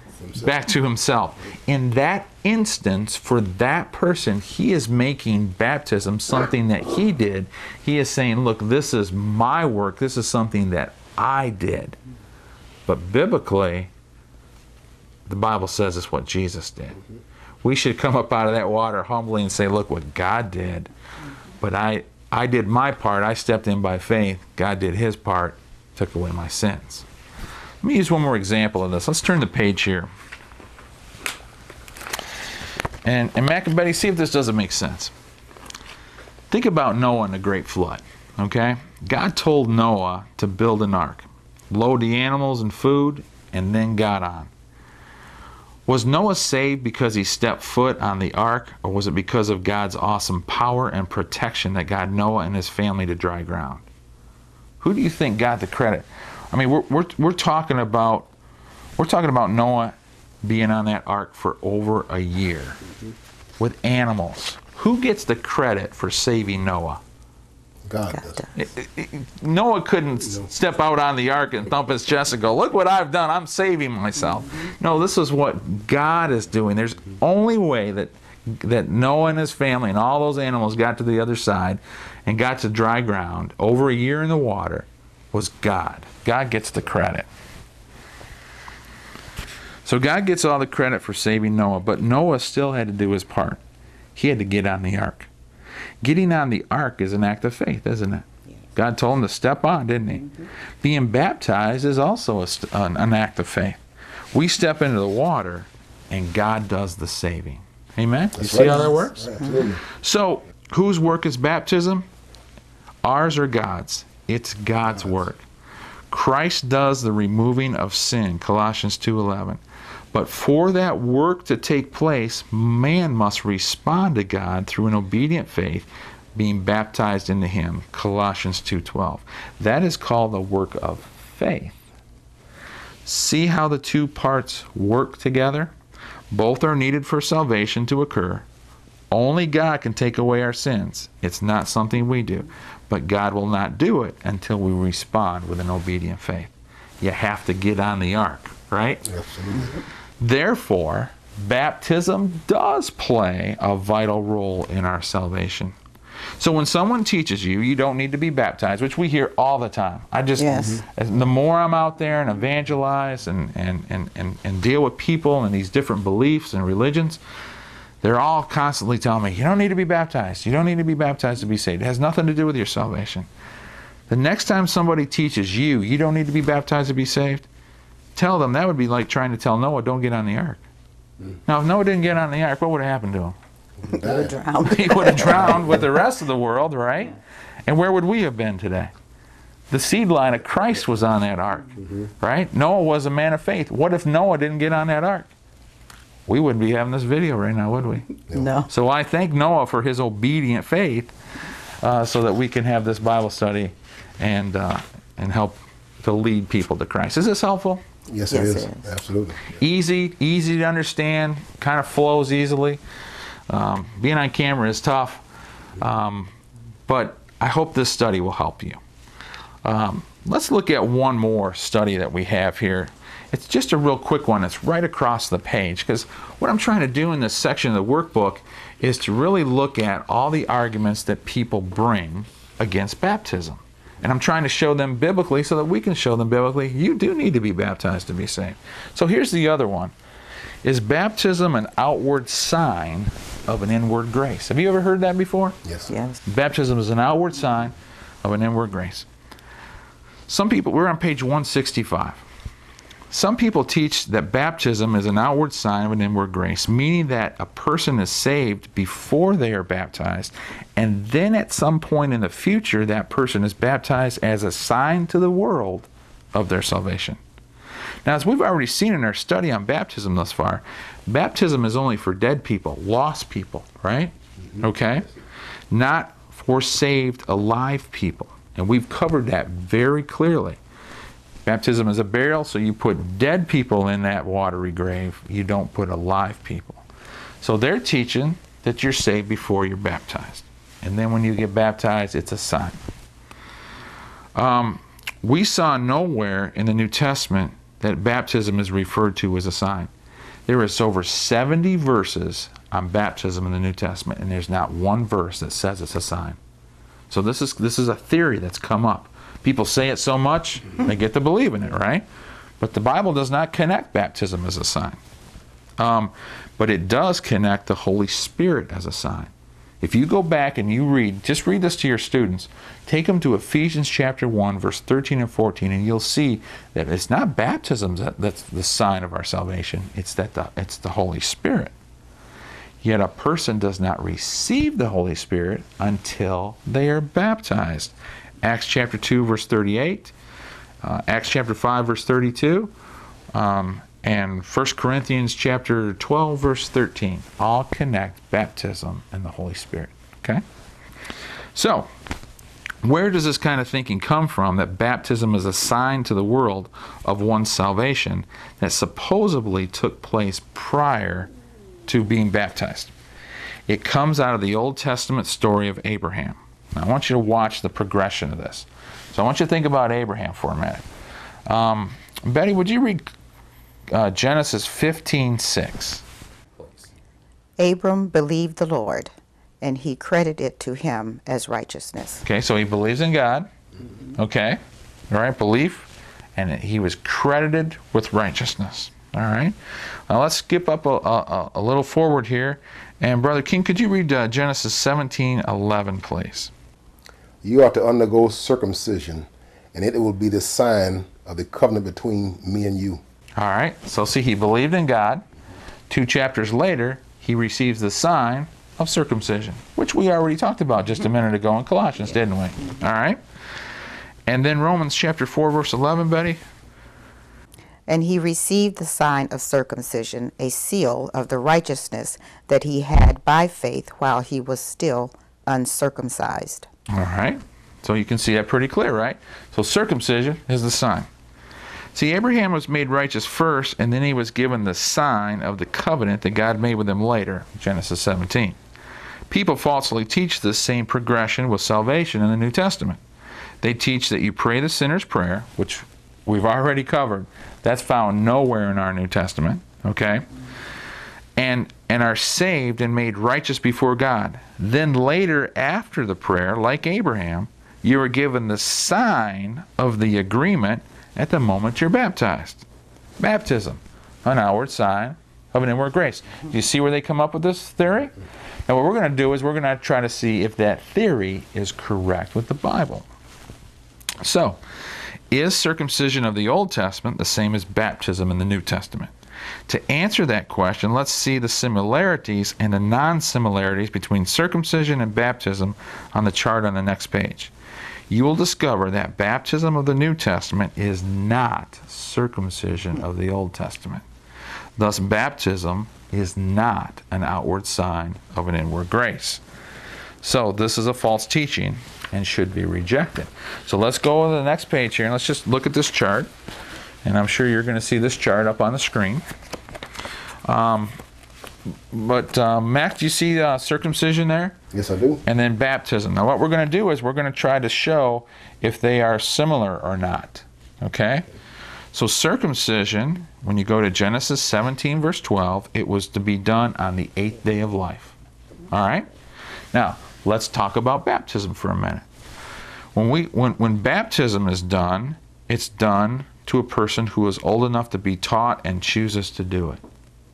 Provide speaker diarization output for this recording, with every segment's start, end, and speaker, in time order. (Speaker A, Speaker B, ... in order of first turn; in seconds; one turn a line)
Speaker A: 0.3-12.0
Speaker A: 12.8-13.9
Speaker A: 15.3-17.0
Speaker A: 17.6-20.9
Speaker A: 21.6-27.0
Speaker A: 27.8-30.1
Speaker A: 33.0-35.1
Speaker A: 36.5-44.5
Speaker A: 45.9-53.8
Speaker A: 54.8-58.3
Speaker A: 59.0-62.8
Speaker A: 63.6-67.0
Speaker B: 67.8-68.5
Speaker A: 68.5-87.3
Speaker A: 89.8-93.6
Speaker A: 94.2-95.3
Speaker A: 96.0-103.8
Speaker A: 104.3-112.0
Speaker B: 108.4-109.8
Speaker A: 113.0-115.4
Speaker A: 116.1-119.6
Speaker A: 120.1-131.7
Speaker A: 133.0-135.7
Speaker A: 136.3-138.4
Speaker A: 139.1-146.5
Speaker A: 147.0-149.0
Speaker B: 149.0-149.8
Speaker A: 150.2-155.7
Speaker A: 156.4-167.2
Speaker C: 160.4-160.8
Speaker A: 168.0-173.3
Speaker A: 174.1-177.4
Speaker A: 178.2-180.6
Speaker A: 181.5-183.3
Speaker B: 183.8-184.4
Speaker C: 184.0-185.5
Speaker A: 184.6-188.9
Speaker A: 189.7-195.3
Speaker A: 196.3-201.1
Speaker C: 198.3-198.7
Speaker A: 201.8-207.8
Speaker B: 208.1-209.4
Speaker C: 208.3-208.8
Speaker A: 209.5-212.8
Speaker A: 213.5-215.2
Speaker A: 215.8-216.3
Speaker A: 216.9-218.8
Speaker A: 219.6-239.9
Speaker A: 240.6-245.6
Speaker B: 245.6-245.9
Speaker C: 245.9-246.2
Speaker A: 246.2-249.1
Speaker A: 250.3-252.2
Speaker A: 253.1-267.2
Speaker A: 268.0-275.1
Speaker A: 275.7-280.6
Speaker A: 281.4-286.8
Speaker A: 287.4-292.8
Speaker A: 294.3-299.9
Speaker A: 300.5-306.4
Speaker A: 307.1-312.0
Speaker A: 312.6-315.0
Speaker A: 315.8-319.3
Speaker A: 319.8-331.7
Speaker A: 332.8-340.1
Speaker A: 340.8-342.7
Speaker A: 343.3-350.4
Speaker A: 351.5-351.9
Speaker A: 352.8-361.3
Speaker A: 361.9-362.9
Speaker A: 363.7-370.8
Speaker A: 371.4-373.1
Speaker A: 373.9-376.0
Speaker C: 377.6-382.2
Speaker A: 382.2-383.5
Speaker A: 384.1-389.5
Speaker A: 390.1-396.5
Speaker B: 397.4-403.0
Speaker A: 403.4-405.2
Speaker A: 405.9-413.2
Speaker A: 414.3-416.4
Speaker C: 417.9-426.7
Speaker A: 426.9-431.1
Speaker A: 431.9-438.6
Speaker A: 439.3-443.0
Speaker A: 443.6-450.3
Speaker A: 451.4-462.6
Speaker A: 463.2-468.1
Speaker A: 468.7-473.0
Speaker A: 474.2-474.6
Speaker A: 475.3-479.1
Speaker A: 479.7-487.5
Speaker A: 488.1-494.0
Speaker A: 494.8-499.4
Speaker A: 500.2-506.3
Speaker A: 507.0-509.2
Speaker A: 510.4-510.9
Speaker A: 511.9-514.6
Speaker B: 514.7-515.2
Speaker A: 515.2-521.3
Speaker A: 521.9-528.1
Speaker A: 528.7-529.1
Speaker A: 529.7-532.0
Speaker A: 532.9-539.8